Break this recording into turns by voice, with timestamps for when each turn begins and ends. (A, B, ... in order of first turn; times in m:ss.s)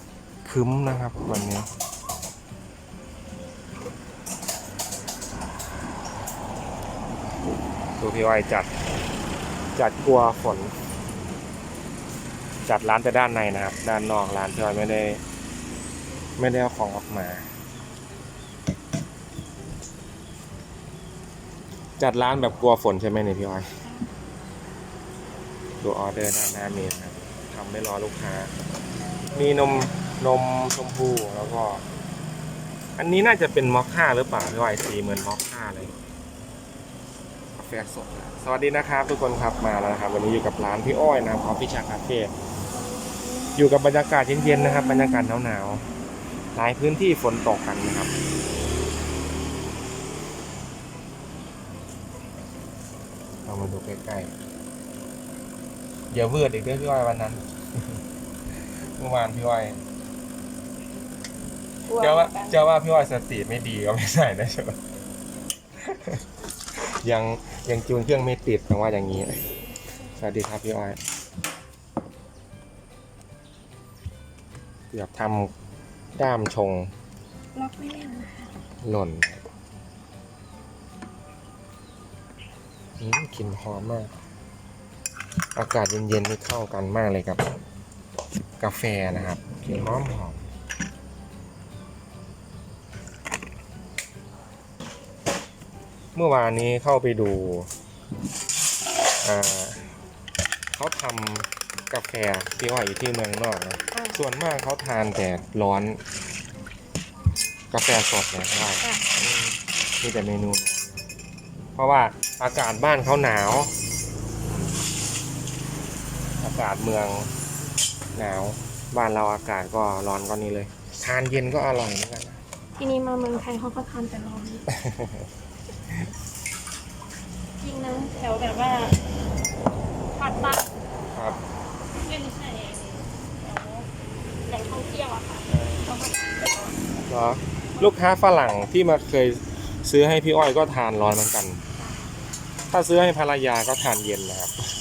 0:00.4-0:01.7 A
0:08.0-0:08.7 A
0:09.7-0:10.7 A
0:12.6-0:15.2 A
0:16.4-0:17.5 A
0:22.0-0:23.7 A
0:25.8-0:28.5 A
0:29.3-0:31.8 A
0:33.0-0:35.9 A
0:37.6-0:42.3 A
0:43.6-0:45.8 A
0:46.5-0:48.1 A
0:53.4-0:54.3 A
0:56.1-0:57.5 A
0:58.9-0:59.8 A
1:01.9-1:02.6 B
1:02.0-1:04.8 A
1:05.8-1:06.2 A
1:06.8-1:09.4 A
1:10.1-1:11.0 A
1:14.9-1:15.5 A
1:16.1-1:16.9 A
1:17.5-1:18.6 B
1:18.8-1:19.4 A
1:23.0-1:24.1 A
1:25.5-1:27.4 A
1:28.6-1:30.4 A
1:36.1-1:37.7 A
1:39.2-1:40.0 A
1:40.7-1:46.0 A
1:43.9-1:44.2 B
1:47.7-1:51.0 A
1:51.8-1:53.7 A
1:56.4-1:57.3 A
1:58.1-2:02.4 A
2:02.8-2:04.6 B
2:04.7-2:05.3 A
2:07.6-2:09.0 B
2:10.1-2:10.7 B
2:11.1-2:11.4 A
2:12.0-2:13.9 B
2:14.4-2:16.8 B
2:15.5-2:15.8 A
2:17.0-2:21.6 A
2:21.8-2:22.1 B
2:22.7-2:24.5 A